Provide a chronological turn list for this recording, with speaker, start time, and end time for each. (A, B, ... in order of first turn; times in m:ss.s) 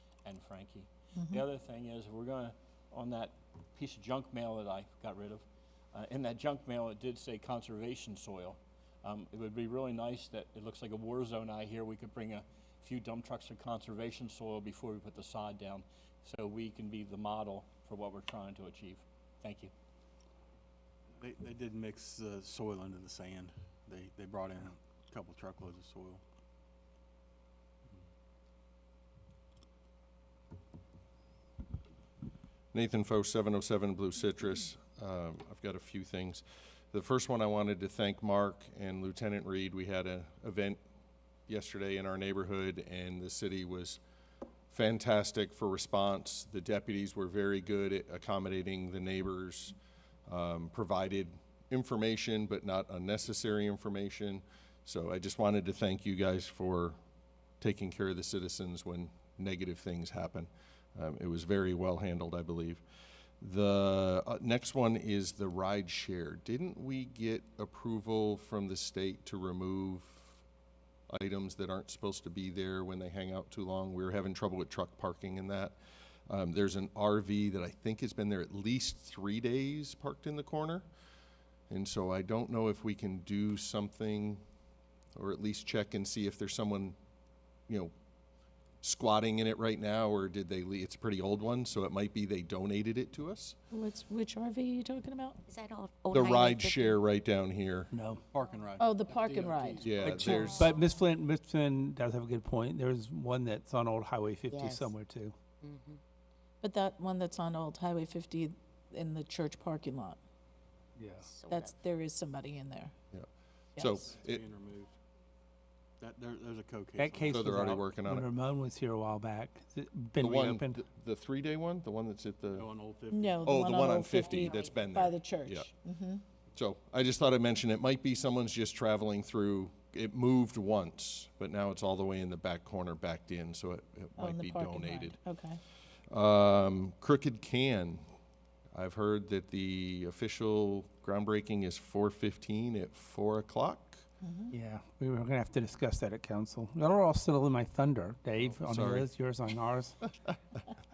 0:00.2-0:19.7 A
0:01.2-0:01.4 B
0:21.2-0:26.2 C
0:32.7-0:40.8 D
0:41.5-0:44.0 D
0:44.7-0:49.7 D
0:50.3-0:57.0 D
0:57.6-1:02.8 D
1:03.4-1:10.4 D
1:11.1-1:15.8 D
1:16.3-1:20.9 D
1:21.7-1:24.4 D
1:25.2-1:27.0 D
1:28.8-1:33.6 D
1:33.7-1:35.4 B
1:35.5-1:37.0 E
1:36.1-1:37.9 D
1:37.9-1:38.2 F
1:38.1-1:40.8 C
1:38.8-1:40.6 B
1:39.8-1:40.7 D
1:40.0-1:45.3 F
1:44.5-1:44.9 E
1:45.6-1:46.0 E
1:46.6-1:50.2 B
1:51.0-1:51.3 F
1:51.2-1:51.8 E
1:51.4-1:52.9 B
1:53.1-1:54.4 D
1:53.8-1:54.0 B
1:54.0-1:54.9 C
1:56.0-1:57.4 C
1:57.0-2:00.8 F
1:57.3-1:58.3 D
2:00.2-2:02.7 D
2:02.5-2:03.5 C
2:03.1-2:06.2 B
2:03.4-2:05.7 D
2:06.5-2:15.2 D
2:14.2-2:15.6 B
2:16.1-2:18.0 D
2:18.7-2:24.0 D
2:24.2-2:24.5 B
2:24.5-2:30.0 F
2:28.6-2:29.1 D